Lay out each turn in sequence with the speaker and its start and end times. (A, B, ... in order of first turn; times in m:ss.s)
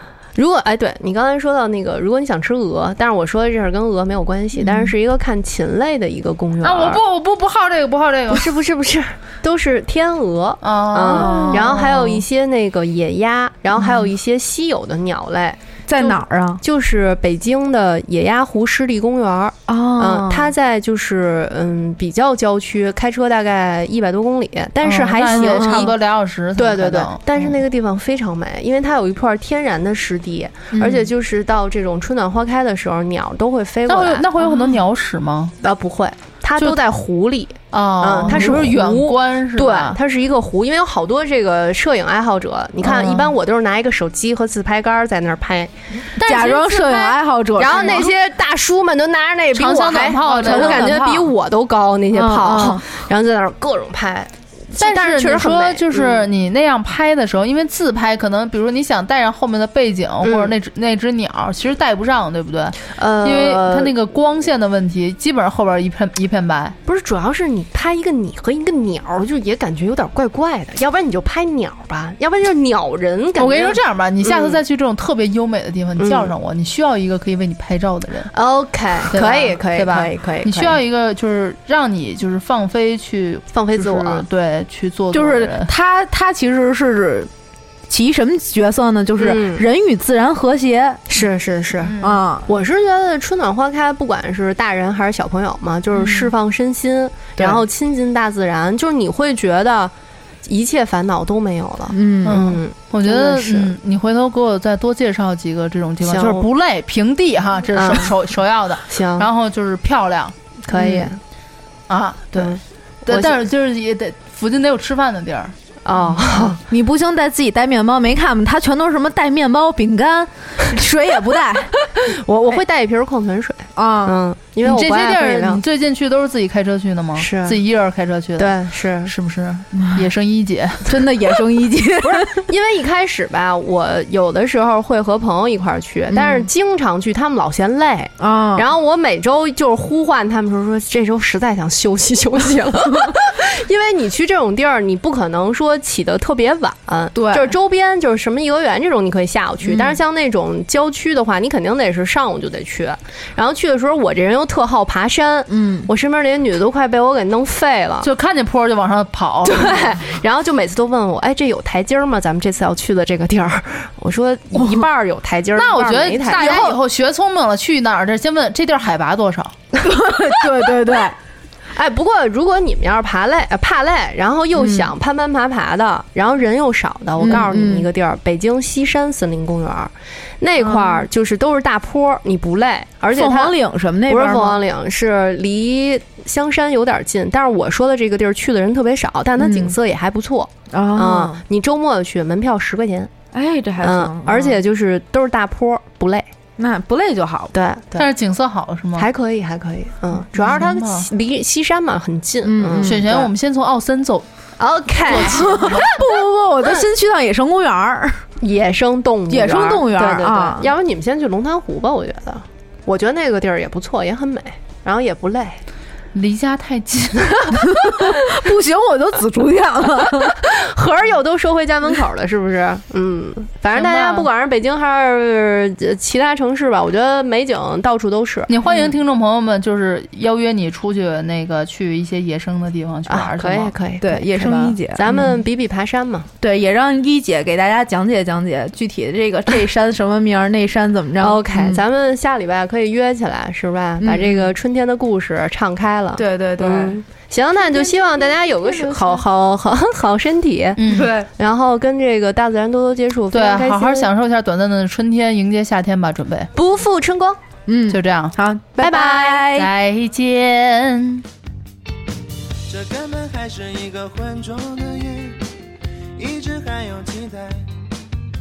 0:00.4-0:07.0 A
0:04.6-0:04.9 B
0:06.6-0:08.5 B
0:08.3-0:25.9 A
0:10.6-0:12.2 B
0:11.1-0:11.8 C
0:15.9-0:16.6 C
0:19.7-0:20.5 C
0:24.8-0:27.6 B
0:25.2-0:25.9 C
0:26.6-0:34.3 A
0:33.9-0:35.6 B
0:35.6-0:56.3 A
0:37.7-0:40.0 B
0:42.8-0:43.3 B
0:46.2-0:48.1 C
0:49.5-0:51.3 B
0:50.4-0:51.0 C
0:52.1-0:52.8 C
0:54.8-1:06.8 B
1:00.2-1:00.5 A
1:02.9-1:03.9 A
1:06.8-1:14.6 A
1:13.4-1:18.3 B
1:16.0-1:16.3 A
1:18.3-1:20.8 A
1:19.1-1:25.7 B
1:23.5-1:24.2 A
1:25.1-1:27.3 C
1:27.9-1:31.0 C
1:29.2-1:29.6 A
1:31.1-1:39.9 A
1:31.8-1:32.2 B
1:32.0-1:32.5 C
1:36.0-1:36.3 C
1:40.4-1:43.7 A
1:41.9-1:42.5 C
1:42.2-1:51.1 B
1:46.0-1:46.5 A
1:47.7-1:48.1 A
1:48.9-1:49.3 A
1:50.7-1:51.2 A
1:51.9-1:55.6 B
1:52.4-1:53.4 A
1:55.8-1:56.6 A
1:56.5-2:01.7 C
2:02.0-2:05.6 A
2:03.8-2:04.2 C
2:04.6-2:11.0 B
2:07.2-2:07.6 A
2:08.4-2:09.1 A
2:10.8-2:12.5 C
2:12.0-2:38.1 A
2:16.1-2:16.5 C
2:18.2-2:18.6 C
2:27.2-2:27.6 C
2:29.6-2:30.0 C
2:35.5-2:35.9 C
2:38.0-2:40.0 B
2:39.4-2:46.8 A
2:45.6-2:49.6 B
2:46.3-2:46.8 C
2:49.8-2:51.2 C
2:51.7-3:03.6 A
2:54.6-2:54.9 C
2:57.2-2:57.9 C
3:00.6-3:01.1 C
3:03.1-3:04.6 C
3:04.1-3:13.1 A
3:09.4-3:09.8 C
3:10.7-3:11.4 C
3:13.3-3:14.6 C
3:13.8-3:16.3 A
3:16.6-3:17.5 C
3:17.5-3:18.1 A
3:18.0-3:19.1 B
3:19.0-3:23.3 A
3:20.3-3:21.1 B
3:22.4-3:23.0 C
3:22.8-3:24.3 B
3:24.6-3:26.8 A
3:25.0-3:25.9 B
3:25.1-3:28.2 C
3:28.4-3:35.6 A
3:29.3-3:30.7 C
3:36.1-3:37.6 B
3:37.5-3:40.4 C
3:40.4-3:48.5 A
3:43.7-3:44.3 B
3:48.5-3:53.8 B
3:53.1-3:56.3 A
3:54.0-3:55.4 C
3:56.4-4:01.8 C
4:01.2-4:14.1 A
4:04.0-4:04.5 C
4:06.2-4:07.0 C
4:07.9-4:09.2 C
4:10.8-4:11.2 B
4:10.9-4:11.3 C
4:13.3-4:16.5 B
4:16.5-4:17.4 A
4:17.7-4:19.7 C
4:17.9-4:18.4 B
4:18.8-4:19.5 A
4:19.5-4:21.2 B
4:22.7-4:25.5 D
4:26.2-4:27.7 D